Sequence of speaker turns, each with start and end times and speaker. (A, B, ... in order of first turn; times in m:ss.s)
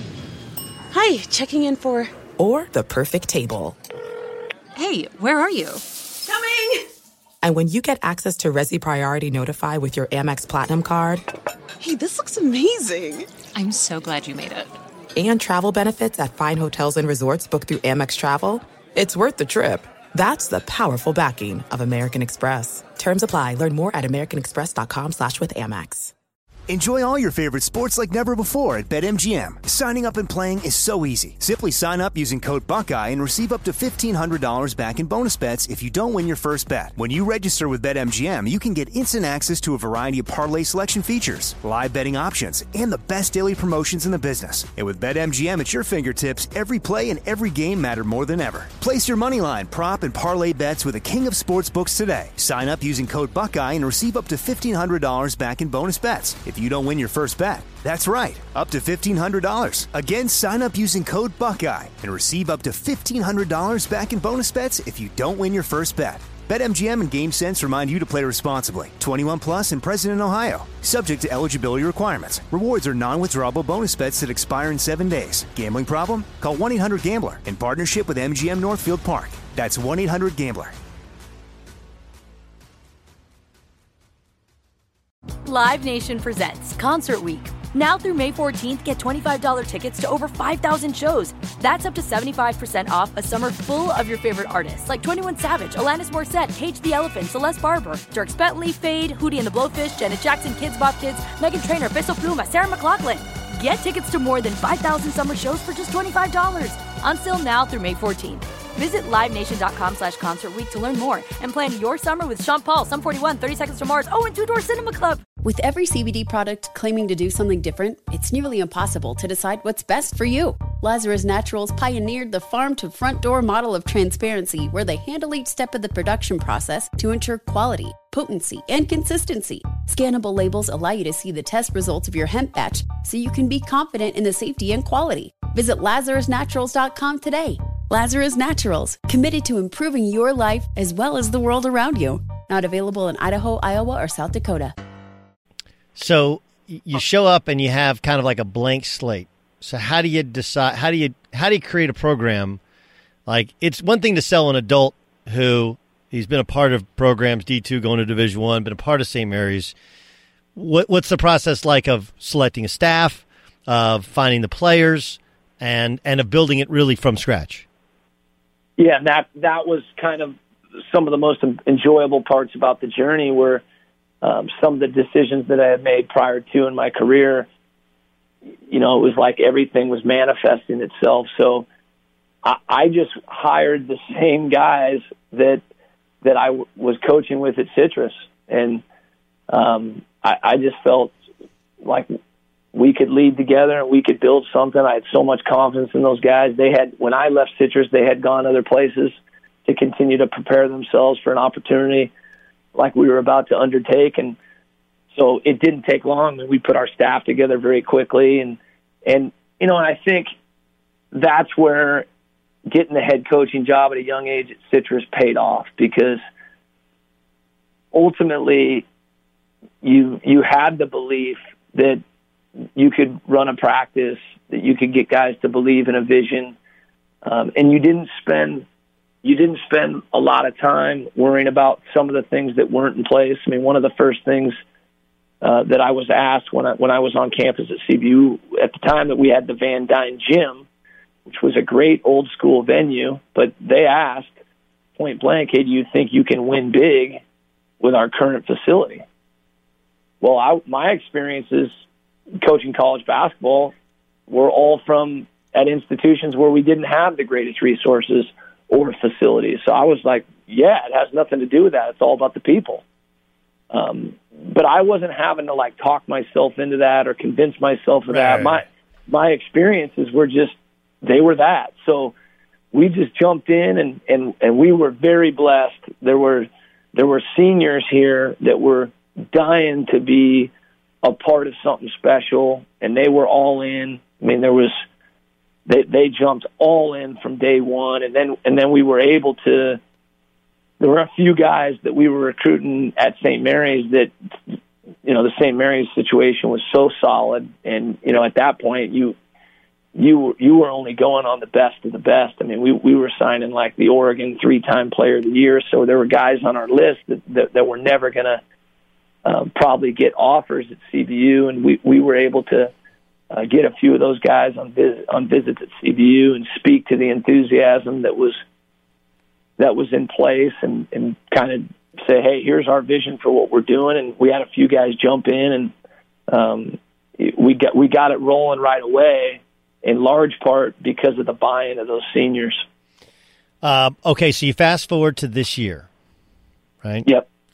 0:02.4-0:03.8 A
0:04.8-0:05.8 B
0:07.4-0:11.2 A
0:12.7-0:13.2 A
0:13.5-0:14.7 B
0:15.2-0:26.1 A
0:26.7-1:20.7 C
1:25.4-1:55.2 D
1:55.4-2:24.7 E
2:26.0-2:32.6 F
2:33.3-2:39.7 F
2:40.5-2:47.6 F
2:48.8-2:50.4 G
2:50.9-2:53.6 G
2:54.2-2:57.5 G
2:58.7-3:01.6 G
3:02.4-3:05.6 G
3:06.2-3:08.8 G
3:09.5-3:11.1 G
3:11.8-3:12.1 G
3:12.7-3:22.1 G
3:22.7-3:24.4 G
3:25.1-3:30.3 G
3:31.1-3:32.0 G
3:32.7-3:36.2 G
3:37.9-3:38.8 G
3:39.8-3:42.0 G
3:42.8-3:46.5 G
3:47.2-3:48.6 G
3:49.2-3:54.6 G
3:55.4-4:00.6 G
4:01.2-4:04.3 G
4:05.0-4:07.2 G
4:07.8-4:09.0 G
4:10.2-4:11.7 G
4:12.4-4:13.7 G
4:14.3-4:22.8 G
4:23.7-4:32.1 G
4:28.1-4:28.6 F
4:32.7-4:40.5 G
4:41.0-4:44.8 G
4:45.6-4:49.8 G
4:50.8-4:54.1 G
4:55.0-4:59.2 G
4:59.9-5:08.4 G
5:09.2-5:12.7 G
5:13.3-5:18.4 G
5:19.6-5:25.7 G
5:26.3-5:32.6 G
5:33.6-5:35.9 F
5:36.8-5:37.1 F